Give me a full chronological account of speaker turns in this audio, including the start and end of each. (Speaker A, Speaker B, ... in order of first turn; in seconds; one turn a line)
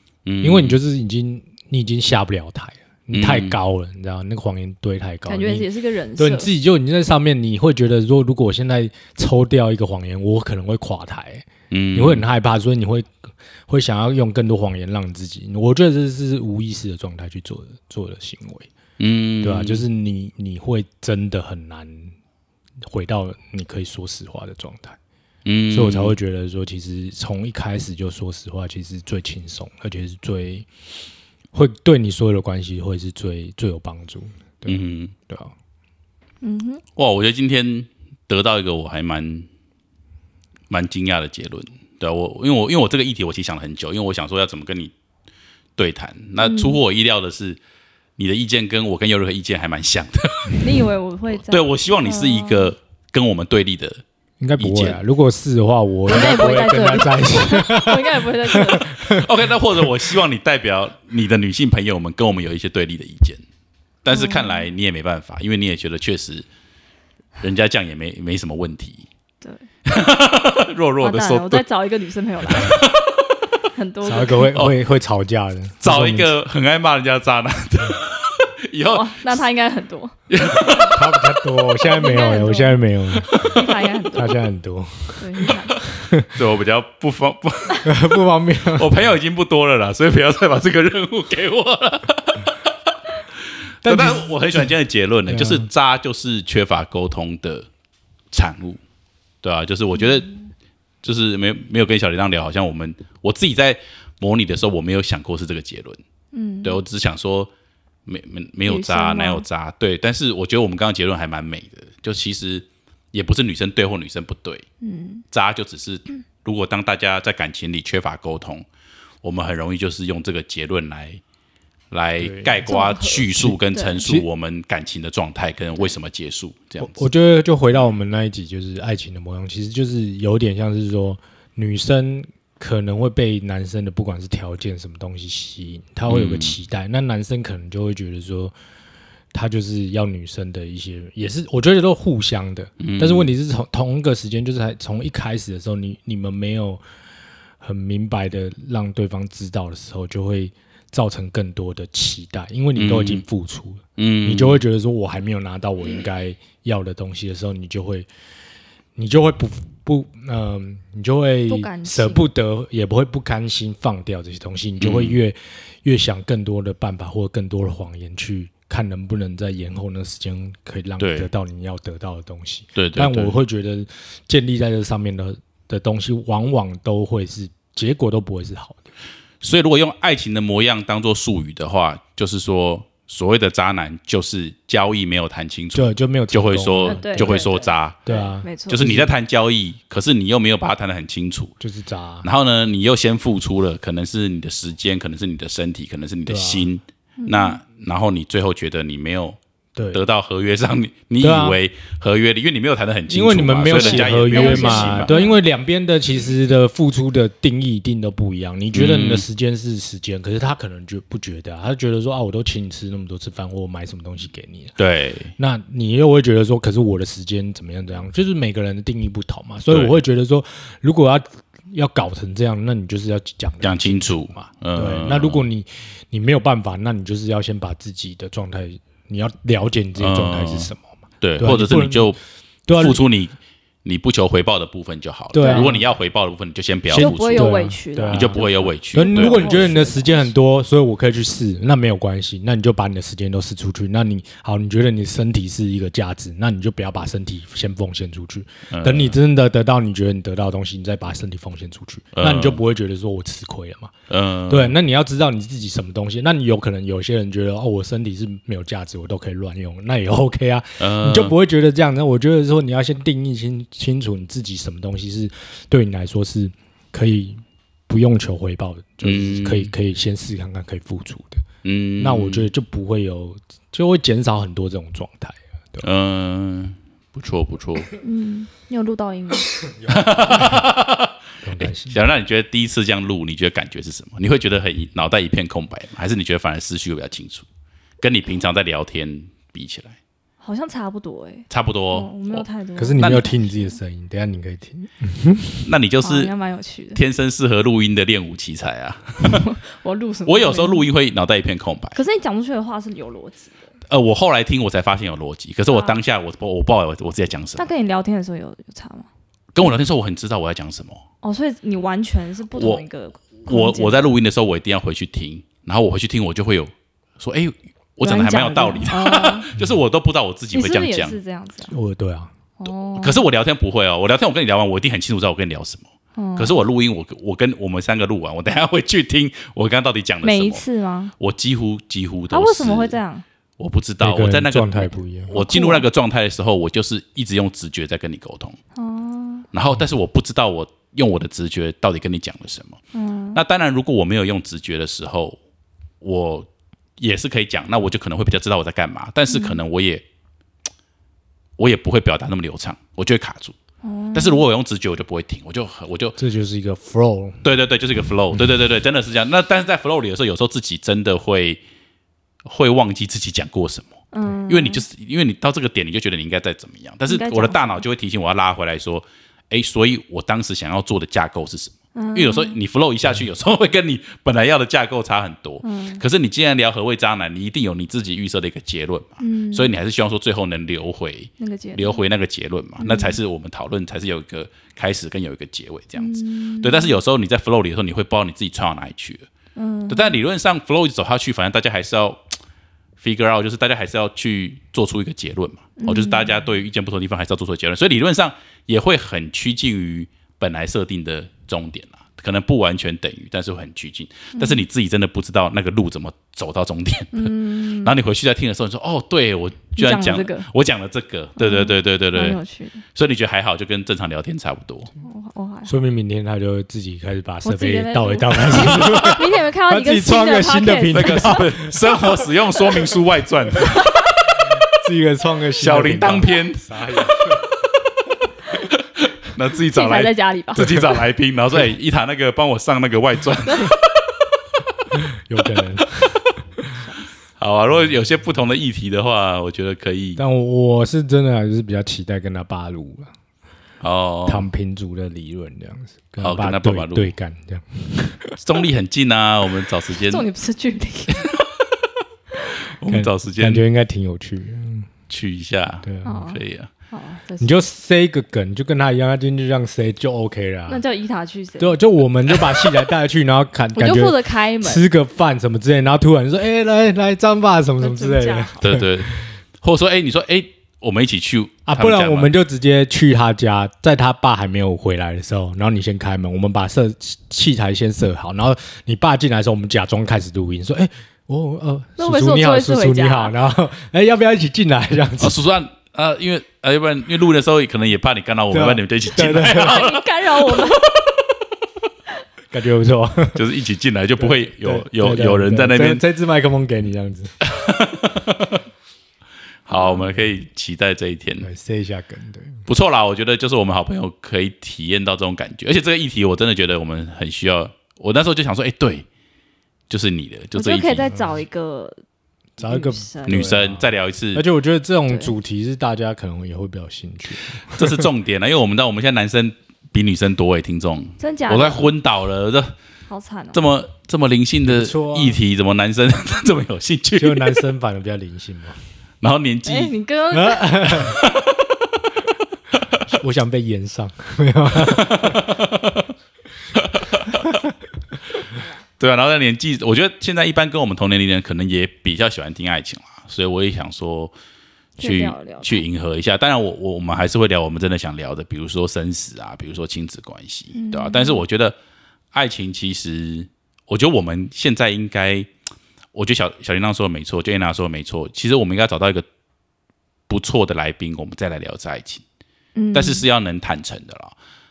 Speaker A: 0.2-0.8
Speaker B: 0.4-13.1
Speaker A: 3.1-3.5
Speaker C: 5.2-6.5
Speaker A: 11.7-12.2
Speaker B: 13.7-18.7
Speaker A: 19.0-19.8
Speaker B: 19.4-22.1
Speaker B: 22.8-25.0
Speaker A: 25.4-26.1
Speaker B: 25.7-30.7
Speaker B: 31.5-35.5
Speaker A: 34.6-35.1
Speaker C: 36.4-36.8
Speaker A: 37.0-39.5
Speaker A: 40.7-44.9
Speaker A: 45.8-47.6
Speaker C: 46.4-46.8
Speaker A: 48.2-50.7
Speaker C: 50.6-52.7
Speaker A: 51.4-54.0
Speaker B: 54.4-59.3
Speaker A: 54.6-55.0
Speaker C: 56.1-58.9
Speaker A: 59.1-63.4
Speaker A: 64.0-66.5
Speaker C: 64.1-64.7
Speaker A: 67.4-69.1
Speaker A: 69.8-71.6
Speaker C: 71.0-72.8
Speaker A: 72.4-73.2
Speaker C: 73.7-74.5
Speaker B: 74.0-76.3
Speaker A: 75.8-79.4
Speaker C: 78.9-80.9
Speaker A: 80.3-81.0
Speaker B: 80.9-83.5
Speaker C: 81.8-82.8
Speaker A: 83.2-83.6
Speaker C: 83.3-84.5
Speaker B: 84.1-85.3
Speaker C: 85.2-85.9
Speaker B: 85.9-86.4
Speaker A: 86.3-87.9
Speaker B: 87.8-88.9
Speaker A: 88.7-92.7
Speaker B: 93.8-94.7
Speaker A: 93.8-97.7
Speaker B: 95.3-95.7
Speaker A: 98.3-98.8
Speaker A: 99.4-100.3
Speaker A: 101.0-106.0
Speaker C: 106.3-106.8
Speaker A: 106.6-107.5
Speaker A: 108.0-114.7
Speaker C: 108.7-109.4
Speaker C: 114.8-115.2
Speaker A: 115.3-118.7
Speaker A: 119.2-121.2
Speaker A: 121.9-127.0
Speaker B: 122.2-122.7
Speaker C: 122.7-124.1
Speaker B: 123.4-124.2
Speaker B: 126.8-138.5
Speaker A: 136.1-136.6
Speaker B: 139.3-146.8
Speaker A: 142.8-143.3
Speaker B: 147.6-158.1
Speaker A: 152.7-153.2
Speaker A: 154.0-154.6
Speaker B: 158.9-178.9
Speaker C: 161.5-162.3
Speaker A: 164.8-165.2
Speaker A: 171.0-171.3
Speaker A: 172.7-173.4
Speaker A: 179.4-188.0
Speaker B: 185.7-187.5
Speaker C: 186.8-188.8
Speaker B: 188.0-189.1
Speaker A: 188.7-191.5
Speaker B: 191.6-192.3
Speaker A: 192.2-199.4
Speaker B: 196.2-196.7
Speaker C: 197.2-197.6
Speaker B: 199.7-200.0
Speaker A: 199.9-205.1
Speaker B: 201.2-201.6
Speaker B: 203.1-214.8
Speaker C: 203.7-205.4
Speaker A: 208.7-209.2
Speaker A: 214.8-215.3
Speaker B: 215.4-233.0
Speaker A: 219.7-220.0
Speaker A: 223.6-225.4
Speaker A: 230.0-232.2
Speaker A: 232.7-237.5
Speaker B: 235.3-235.8
Speaker C: 235.4-235.7
Speaker B: 236.9-238.4
Speaker C: 236.9-240.3
Speaker A: 238.1-239.7
Speaker B: 238.9-253.9
Speaker A: 248.7-249.2
Speaker A: 252.1-252.6
Speaker A: 254.1-254.7
Speaker B: 254.5-271.4
Speaker A: 260.8-261.3
Speaker A: 269.0-269.7
Speaker A: 271.6-272.5
Speaker B: 272.0-275.9
Speaker A: 275.8-277.9
Speaker C: 278.0-279.6
Speaker A: 279.9-287.5
Speaker B: 279.9-280.6
Speaker B: 281.4-282.0
Speaker A: 288.0-290.0
Speaker C: 290.4-293.8
Speaker A: 291.5-292.4
Speaker B: 292.8-295.7
Speaker A: 293.0-293.3
Speaker A: 295.6-296.3
Speaker C: 296.0-297.0
Speaker A: 296.9-299.4
Speaker C: 299.2-300.9
Speaker A: 300.2-302.0
Speaker C: 301.9-303.7
Speaker A: 303.9-307.7
Speaker C: 305.7-306.0
Speaker C: 307.6-309.1
Speaker A: 309.5-311.0
Speaker C: 311.2-314.1
Speaker A: 312.5-312.8
Speaker A: 313.4-321.2
Speaker C: 318.0-319.5
Speaker C: 320.5-321.7
Speaker B: 321.7-322.3
Speaker C: 322.6-323.2
Speaker A: 323.0-330.6
Speaker C: 326.1-326.6
Speaker C: 330.2-331.1
Speaker A: 331.2-333.0
Speaker C: 332.3-333.2
Speaker A: 333.6-338.6
Speaker B: 334.0-335.3
Speaker C: 335.3-335.9
Speaker C: 338.7-339.5
Speaker A: 339.5-342.8
Speaker C: 342.9-343.4
Speaker A: 343.3-345.4
Speaker A: 346.0-346.5
Speaker A: 347.0-350.0
Speaker C: 349.3-349.6
Speaker A: 351.6-353.6
Speaker C: 353.8-354.4
Speaker A: 354.1-356.2
Speaker B: 356.2-357.4
Speaker A: 357.4-361.6
Speaker A: 362.4-389.3
Speaker C: 364.1-364.8
Speaker C: 367.1-367.8
Speaker C: 371.9-372.6
Speaker C: 375.6-376.0
Speaker C: 379.2-379.7
Speaker C: 381.4-382.0
Speaker C: 382.8-383.2
Speaker C: 386.0-387.0
Speaker C: 389.6-390.2
Speaker A: 389.9-392.3
Speaker A: 393.0-412.4
Speaker C: 395.8-396.4
Speaker C: 404.4-404.6
Speaker C: 407.1-407.9
Speaker C: 409.8-410.4
Speaker C: 411.4-412.8
Speaker A: 412.9-414.9
Speaker C: 415.0-415.8
Speaker B: 415.6-421.7
Speaker C: 417.4-421.5
Speaker A: 420.9-423.9
Speaker C: 423.6-424.2
Speaker B: 424.7-427.4
Speaker A: 425.6-427.4
Speaker A: 428.6-433.9
Speaker C: 429.7-431.0
Speaker B: 434.9-436.1
Speaker C: 436.7-437.1
Speaker A: 437.4-440.2
Speaker B: 440.2-443.1
Speaker A: 443.8-444.5
Speaker B: 444.2-448.4
Speaker A: 446.2-447.1
Speaker A: 448.4-450.2
Speaker C: 450.0-451.3
Speaker A: 451.1-451.4
Speaker A: 452.8-453.6
Speaker B: 452.9-454.9
Speaker A: 455.1-456.7
Speaker B: 455.8-456.2
Speaker C: 456.0-457.6
Speaker B: 457.4-460.8
Speaker C: 460.7-461.8
Speaker B: 461.6-469.2
Speaker C: 463.7-464.8
Speaker C: 467.8-468.6
Speaker A: 468.6-472.3
Speaker B: 471.6-485.4
Speaker C: 482.0-483.4
Speaker A: 485.2-490.8
Speaker B: 488.5-489.8
Speaker C: 489.2-490.9
Speaker B: 492.5-493.4
Speaker A: 493.3-496.0
Speaker B: 494.2-497.3
Speaker A: 497.4-498.6
Speaker A: 499.6-501.5
Speaker C: 499.7-500.1
Speaker B: 501.4-502.6
Speaker A: 502.7-509.1
Speaker A: 509.9-511.1
Speaker C: 510.5-512.0
Speaker B: 511.1-511.4
Speaker B: 512.6-518.1
Speaker C: 512.6-513.5
Speaker A: 513.2-514.4
Speaker A: 517.7-522.8
Speaker C: 521.2-521.9
Speaker C: 523.1-523.6
Speaker A: 523.5-527.6
Speaker B: 524.6-525.4
Speaker B: 527.2-528.8
Speaker A: 529.2-529.9
Speaker C: 529.6-531.1
Speaker B: 530.3-531.2
Speaker A: 531.0-531.7
Speaker A: 532.7-533.0
Speaker B: 533.0-535.5
Speaker A: 534.7-536.1
Speaker A: 536.8-537.6
Speaker A: 539.0-544.3
Speaker C: 545.0-545.8
Speaker A: 545.0-551.8
Speaker C: 550.7-551.4
Speaker A: 552.3-555.5
Speaker A: 556.1-559.2
Speaker A: 560.3-562.2
Speaker C: 562.7-563.2
Speaker A: 562.9-564.3